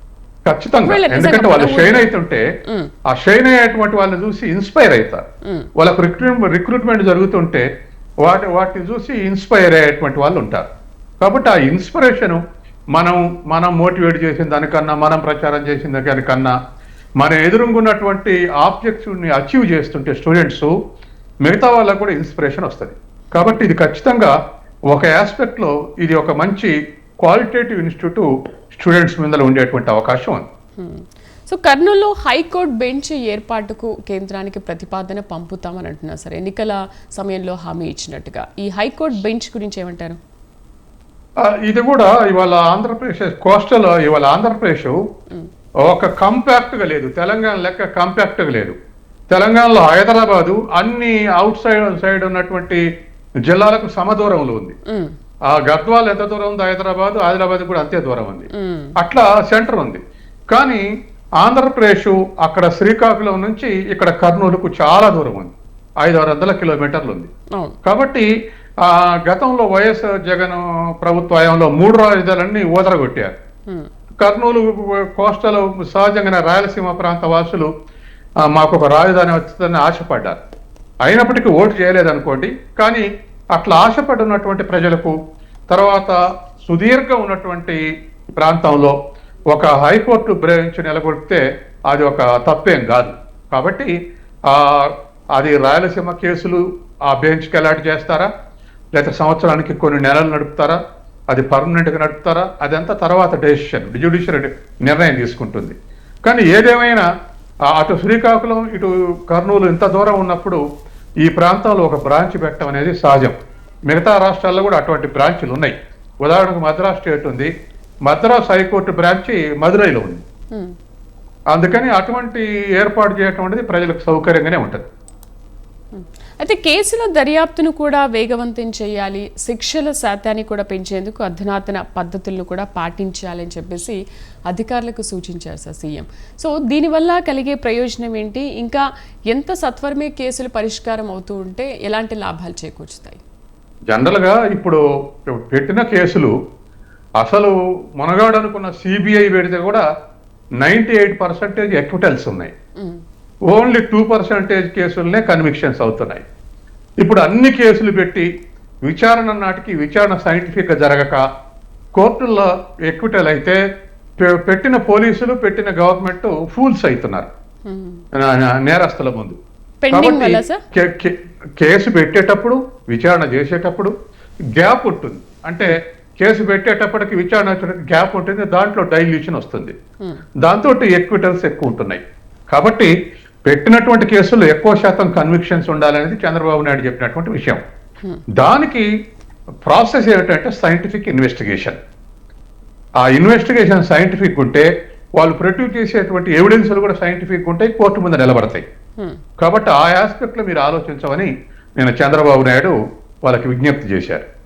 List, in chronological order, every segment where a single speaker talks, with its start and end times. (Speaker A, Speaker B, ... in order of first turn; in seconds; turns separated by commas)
Speaker A: 0.5-2.4, Speaker B: 0.8-2.1, Speaker A: 3.1-5.2, Speaker A: 5.8-7.7, Speaker A: 8.2-10.7, Speaker A: 11.2-12.4, Speaker A: 12.9-16.5, Speaker A: 17.2-20.7, Speaker A: 21.4-24.3, Speaker B: 23.3-23.6, Speaker A: 24.9-30.4, Speaker B: 30.8-40.2, Speaker A: 41.5-45.0, Speaker A: 45.8-48.8, Speaker A: 49.3-52.8, Speaker A: 53.5-54.8, Speaker A: 55.5-60.0, Speaker B: 58.5-58.9, Speaker A: 60.5-60.8, Speaker A: 61.4-67.3, Speaker A: 67.8-68.3, Speaker A: 68.8-73.3, Speaker A: 74.2-77.7, Speaker A: 78.4-80.4, Speaker A: 81.0-85.1, Speaker A: 85.7-87.8, Speaker A: 88.4-89.0, Speaker A: 89.5-93.9, Speaker A: 94.5-98.3, Speaker A: 98.9-100.8, Speaker A: 101.3-107.0, Speaker A: 107.7-110.6, Speaker A: 111.2-113.3, Speaker A: 113.9-117.5, Speaker A: 118.1-120.2, Speaker A: 121.5-124.8, Speaker B: 125.9-134.0, Speaker B: 134.5-143.2, Speaker A: 143.9-144.8, Speaker A: 145.3-146.3, Speaker A: 147.2-149.8, Speaker A: 150.6-152.5, Speaker A: 153.5-156.2, Speaker A: 157.0-158.3, Speaker A: 158.9-161.2, Speaker A: 161.9-163.6, Speaker A: 164.2-167.3, Speaker B: 167.7-168.0, Speaker A: 168.1-169.4, Speaker B: 169.8-170.6, Speaker A: 169.9-173.9, Speaker A: 174.6-179.7, Speaker A: 180.4-182.9, Speaker A: 183.5-187.6, Speaker A: 188.4-188.9, Speaker A: 189.7-191.8, Speaker A: 193.0-198.6, Speaker A: 199.4-204.3